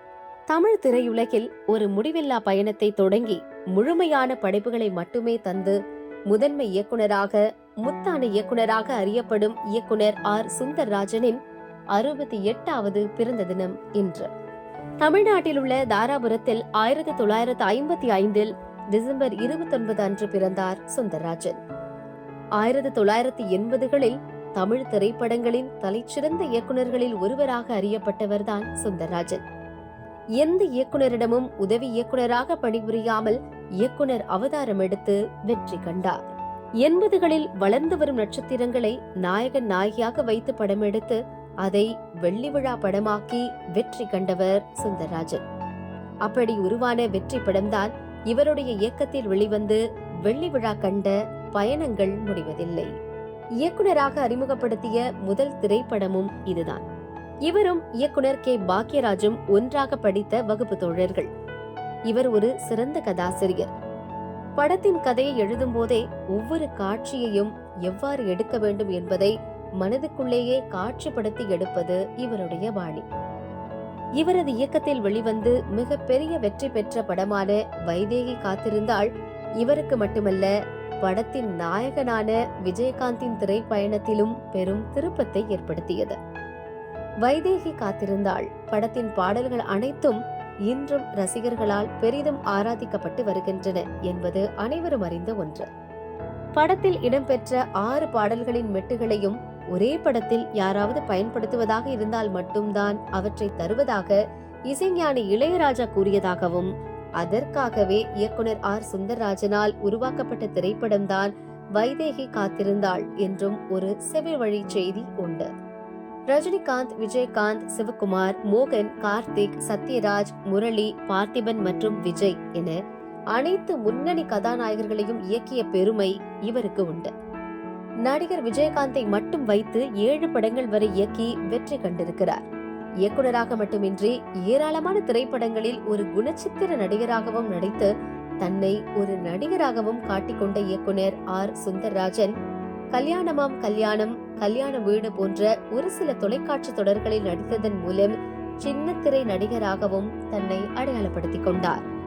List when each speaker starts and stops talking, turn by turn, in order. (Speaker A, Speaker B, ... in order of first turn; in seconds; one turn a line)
Speaker A: 0.5-5.8
Speaker A: 6.3-11.4
Speaker A: 11.9-14.3
Speaker A: 15.0-21.6
Speaker A: 22.6-29.4
Speaker A: 30.4-36.2
Speaker A: 36.8-45.4
Speaker A: 46.2-52.9
Speaker A: 53.6-56.8
Speaker A: 57.5-61.3
Speaker A: 62.1-63.7
Speaker A: 64.6-73.0
Speaker A: 74.2-79.1
Speaker A: 79.6-86.2
Speaker A: 87.2-95.7
Speaker A: 96.5-115.5
Speaker A: 116.3-122.8
Speaker A: 123.3-127.1
Speaker A: 128.0-132.5
Speaker A: 133.0-137.9
Speaker A: 138.4-142.3
Speaker A: 142.9-151.8